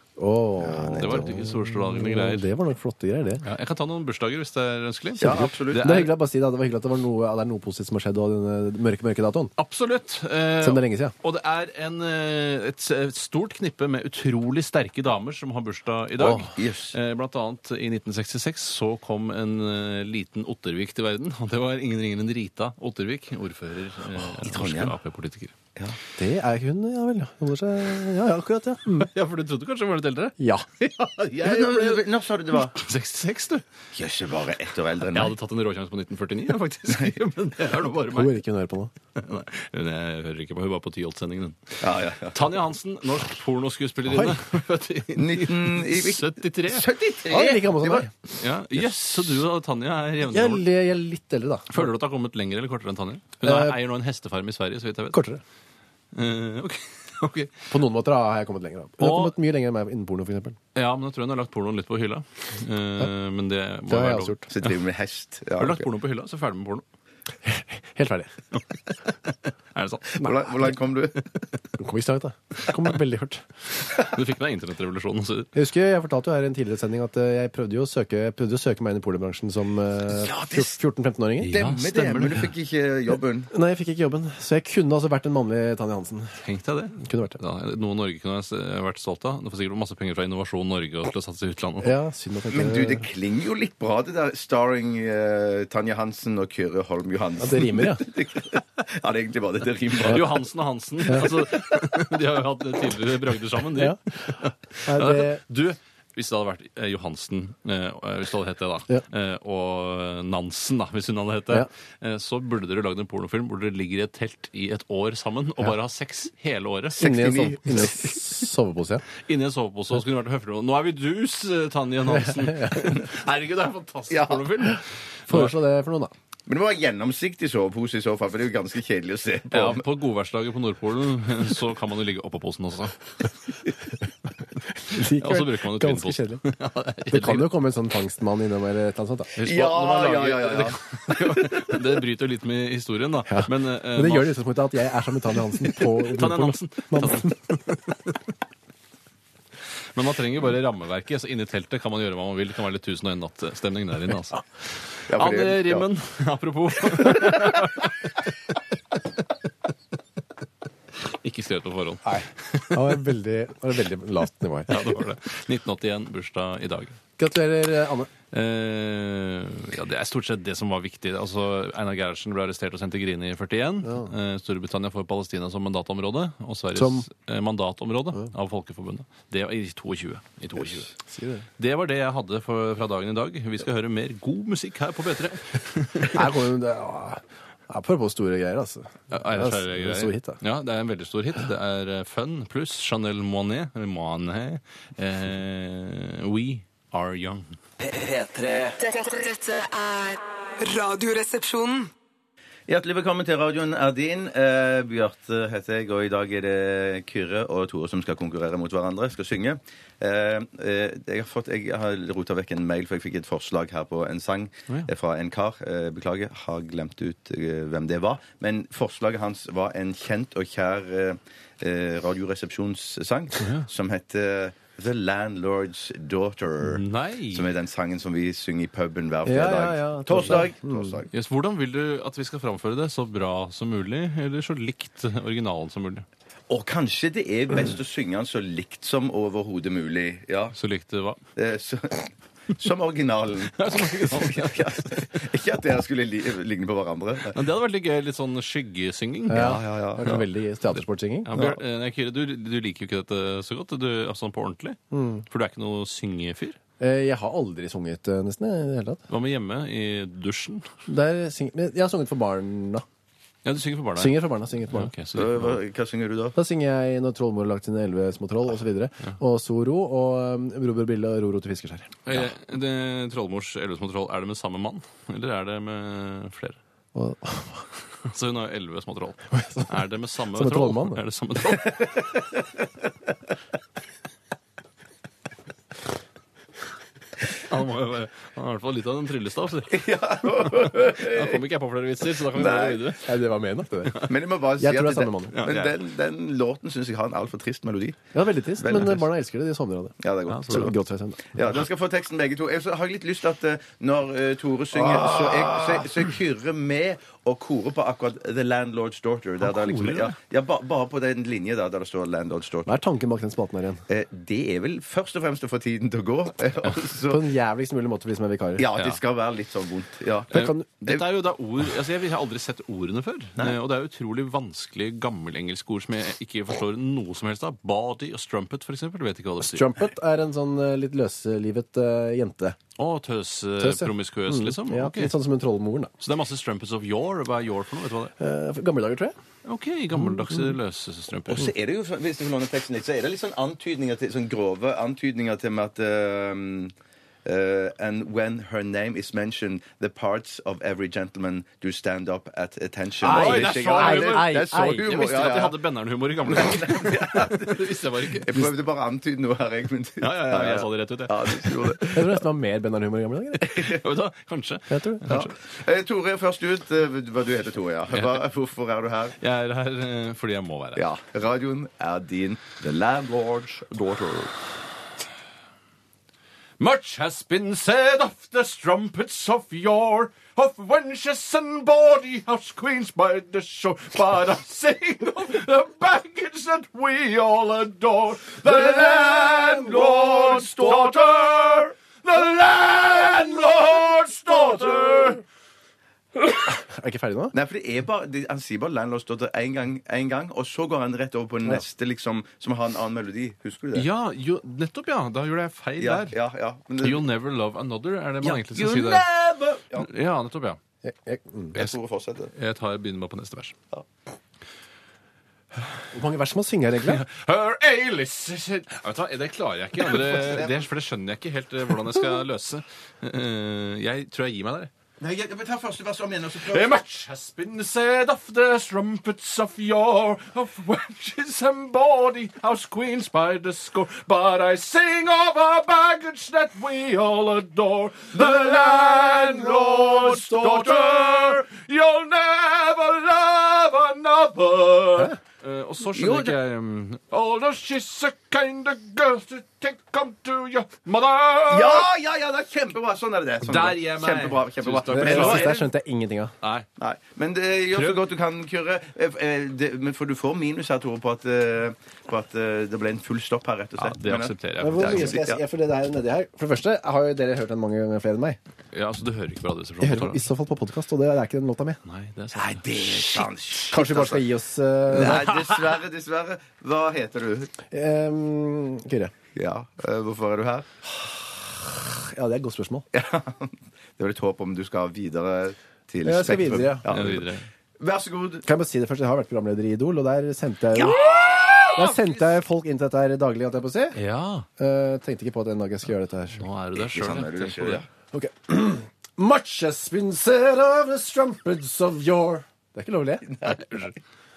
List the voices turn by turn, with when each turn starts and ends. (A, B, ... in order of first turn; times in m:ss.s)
0:00.2-0:03.4 A
0:00.6-0:01.3 B
0:01.0-0:02.5 C
0:03.4-0:06.1 C
0:05.2-0:09.5 A
0:05.2-0:06.0 B
0:09.6-0:25.6 C
0:10.6-0:11.1 A
0:16.2-0:17.0 B
0:16.2-0:16.5 A
0:24.3-0:25.0 B
0:26.2-0:29.1 A
0:28.9-0:32.0 C
0:30.4-0:30.7 A
0:31.4-0:32.8 B
0:32.5-0:33.6 C
0:34.0-0:35.4 B
0:35.1-0:38.4 C
0:38.1-0:38.9 A
0:39.2-0:46.9 C
0:41.8-0:42.4 B
0:44.1-0:44.4 A
0:45.2-0:48.1 B
0:47.3-0:48.1 A
0:48.3-0:50.6 C
0:50.2-0:51.8 A
0:51.7-0:55.2 C
0:53.4-0:53.8 A
0:55.1-0:55.4 A
0:56.1-0:57.7 C
0:57.7-1:00.6 A
0:59.0-0:59.3 C
1:00.8-1:04.8 C
1:03.9-1:04.5 A
1:04.5-1:05.8 B
1:05.6-1:06.8 C
1:07.4-1:08.3 A
1:09.2-1:10.3 C
1:10.1-1:11.2 B
1:11.8-1:13.4 A
1:13.9-1:15.5 C
1:15.5-1:21.5 A
1:20.1-1:20.8 B
1:21.4-1:22.5 C
1:21.5-1:23.5 B
1:23.5-1:26.4 A
1:26.4-1:32.0 C
1:27.0-1:27.4 A
1:31.8-1:33.0 A
1:32.5-1:40.4 B
1:37.4-1:38.1 A
1:40.0-1:57.1 C
1:43.7-1:45.4 A
1:57.0-1:58.2 B
1:57.0-1:59.0 A
1:59.2-2:05.6 C
2:02.1-2:03.0 A
2:04.1-2:04.7 B
2:05.3-2:06.1 A
2:06.5-2:09.8 B
2:09.5-2:13.1 C
2:14.7-2:16.4 A
2:14.9-2:17.5 C
2:17.1-2:19.3 A
2:19.3-2:24.4 C
2:19.4-2:20.8 B
2:23.3-2:27.6 A
2:25.3-2:28.2 C
2:29.9-2:39.7 C
2:35.1-2:35.9 B
2:40.9-2:43.0 C
2:42.0-2:44.9 A
2:44.7-2:47.0 C
2:47.2-2:48.1 A
2:48.3-3:00.9 C
2:56.8-2:57.1 A
3:01.1-3:01.4 A
3:01.6-3:06.4 C
3:06.1-3:10.4 A
3:09.1-3:17.6 C
3:17.8-3:21.9 D
3:22.7-3:51.1 B
3:43.4-3:43.7 C
3:46.6-3:47.5 C
3:49.3-3:50.9 A
3:51.1-3:56.1 C
3:56.5-4:00.6 B
4:00.5-4:01.2 C
4:01.4-4:07.4 B
4:03.5-4:05.2 C
4:07.3-4:10.2 C
4:09.3-4:11.3 A
4:09.3-4:10.2 B
4:11.3-4:16.6 C
4:11.3-4:11.6 B
4:14.9-4:15.2 A
4:16.8-4:19.0 A
4:19.1-4:20.7 C
4:20.9-4:22.8 A
4:23.4-4:25.6 C
4:24.0-4:24.9 A
4:25.2-4:26.4 B
4:26.4-4:32.0 A
4:32.1-4:36.6 C
4:37.0-4:37.6 A
4:37.9-4:41.9 C
4:39.3-4:39.8 A
4:40.3-4:41.0 A
4:47.4-4:53.1 C
4:49.7-4:51.4 B
4:52.3-4:53.0 B
4:53.0-4:55.4 A
4:53.9-4:54.1 C
4:54.0-4:58.1 B
4:55.3-4:55.8 C
4:58.1-5:00.0 A
4:58.6-4:59.0 B
5:00.0-5:00.7 B
5:00.3-5:00.7 C
5:00.5-5:01.4 A
5:01.3-5:12.7 B
5:09.4-5:10.2 C
5:12.7-5:13.8 A
5:13.9-5:17.2 B
5:17.1-5:18.6 A
5:18.6-5:21.0 B
5:18.7-5:19.0 C
5:20.3-5:20.7 A
5:20.3-5:29.7 C
5:29.4-5:32.6 A
5:32.8-5:35.1 C
5:33.6-5:35.9 A
5:36.0-5:38.1 C
5:38.2-5:39.2 A
5:39.4-5:41.5 C
5:41.3-5:46.7 B
5:47.2-5:55.6 B
5:53.0-5:58.4 C
5:53.0-5:54.9 A
5:56.3-6:02.1 B
6:00.0-6:02.0 C
6:01.9-6:03.6 A
6:03.4-6:05.4 C
6:03.5-6:03.8 B
6:04.7-6:05.0 A
6:05.1-6:09.2 B
6:07.9-6:08.2 C
6:09.2-6:10.8 C
6:10.8-6:14.4 B
6:16.6-6:35.2 C
6:28.5-6:31.1 B
6:36.2-6:36.5 C
6:36.5-6:37.3 A
6:37.3-6:43.9 B
6:43.7-6:46.2 C
6:45.8-6:47.1 B
6:46.8-6:49.1 C
6:48.2-6:49.9 B
6:49.8-6:50.6 C
6:50.8-6:51.6 A
6:51.5-6:52.3 B
6:52.3-6:53.6 C
6:55.9-6:57.0 A
6:56.8-7:04.7 C
6:59.9-7:00.6 B
7:05.0-7:06.7 B
7:06.4-7:31.9 C
7:18.9-7:21.0 B
7:25.9-7:26.4 B
7:31.5-7:35.6 B
7:33.4-7:35.7 C
7:34.9-7:36.3 A
7:36.4-7:36.7 C
7:36.8-7:45.4 B
7:37.7-7:38.0 C
7:43.8-7:45.2 C
7:44.6-7:48.4 A
7:48.7-7:50.2 C
7:49.8-7:51.8 A
7:51.8-7:53.3 C
7:52.3-7:54.3 B
7:53.7-7:55.3 A
7:54.9-7:57.5 B
7:54.9-7:55.8 C
7:57.7-7:59.1 A
7:59.4-8:00.7 B
8:01.7-8:02.8 A
8:02.9-8:08.5 B
8:06.0-8:06.9 A
8:06.9-8:07.5 C
8:08.5-8:11.0 A
8:10.8-8:11.8 B
8:10.8-8:12.1 C
8:11.8-8:14.0 A
8:14.0-8:14.5 C
8:14.6-8:16.4 A
8:16.4-8:17.8 C
8:16.8-8:17.9 B
8:18.1-8:23.3 A
8:23.4-8:23.8 B
8:23.6-8:23.9 C